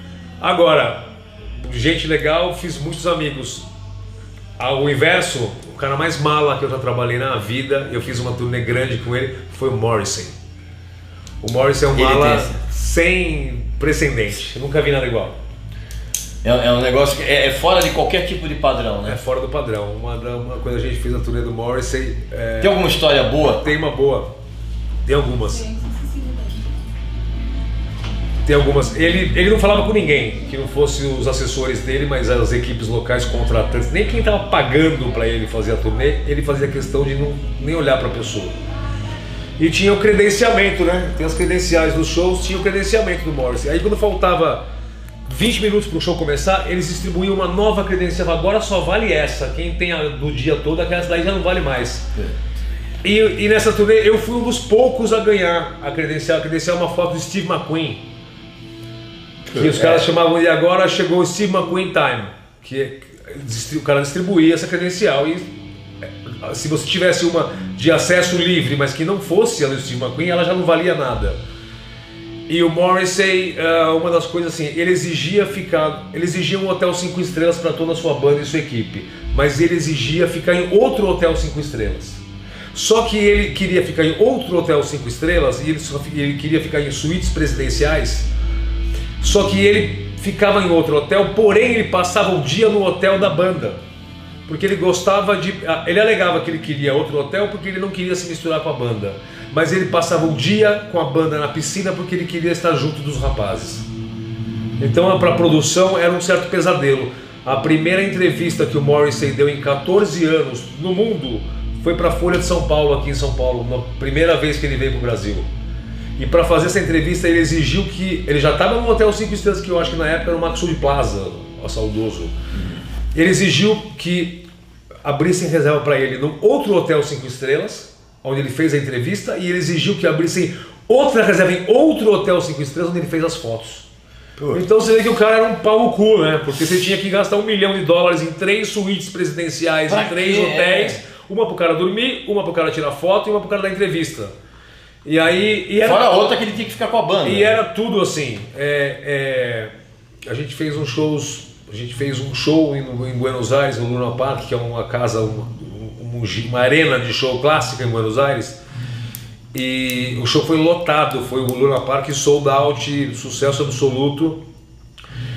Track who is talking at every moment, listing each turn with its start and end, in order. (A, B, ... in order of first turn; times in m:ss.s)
0:00.4-0:01.0 A
0:01.6-0:03.7 A
0:04.6-0:10.4 A
0:11.4-0:15.4 A
0:11.9-0:12.5 B
0:16.4-0:19.2 B
0:19.0-0:22.8 A
0:22.6-0:23.6 B
0:23.4-0:24.3 A
0:25.0-0:25.7 A
0:28.4-0:38.5 A
0:39.6-0:44.6 A
0:45.3-0:52.1 A
0:53.0-0:58.1 A
0:59.5-1:05.4 A
1:06.3-1:11.4 A
1:12.5-1:22.2 A
1:22.7-1:28.3 A
1:29.2-1:33.8 A
1:34.5-1:43.8 A
1:44.8-1:55.5 A
1:56.2-2:02.3 A
2:03.1-2:04.5 A
2:05.0-2:13.9 A
2:14.5-2:24.3 A
2:19.9-2:21.0 B
2:25.0-2:26.2 A
2:25.8-2:27.6 B
2:27.2-2:29.7 A
2:30.3-2:38.6 A
2:39.5-2:44.4 A